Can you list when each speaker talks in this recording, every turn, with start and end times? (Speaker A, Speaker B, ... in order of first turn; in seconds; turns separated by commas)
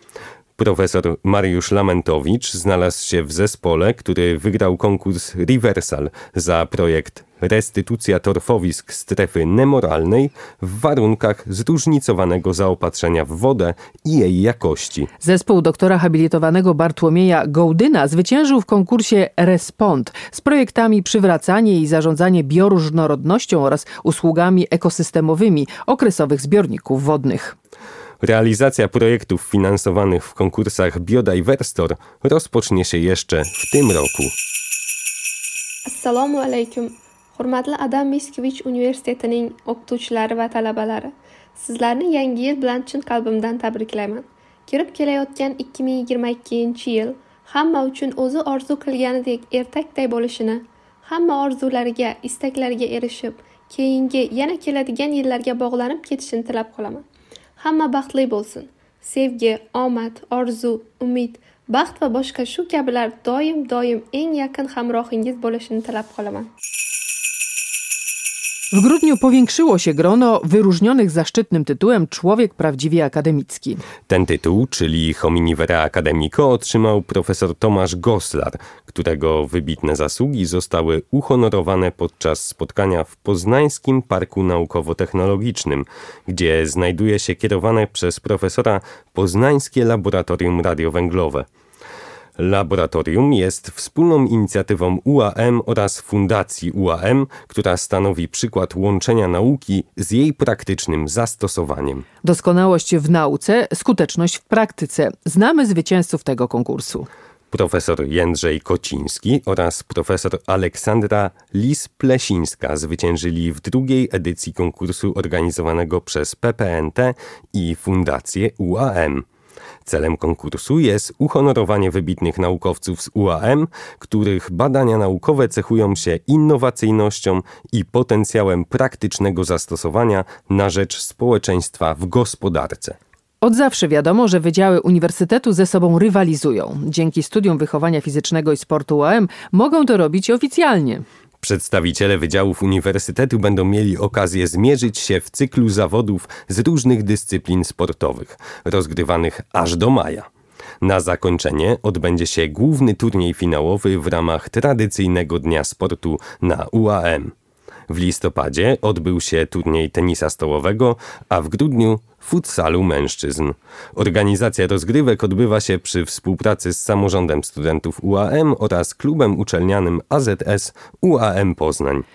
Speaker A: 0.6-15.1, Speaker B: 15.2-27.6, Speaker A: 28.2-34.3, Speaker C: 35.9-57.0, Speaker C: 57.6-66.5, Speaker B: 68.7-73.8, Speaker A: 74.1-91.5, Speaker A: 92.4-102.0, Speaker B: 102.2-107.1, Speaker A: 107.5-119.2, Speaker A: 119.8-133.0, Speaker B: 133.4-141.0, Speaker A: 141.4-150.3, Speaker A: 150.8-157.3, Speaker A: 157.9-172.1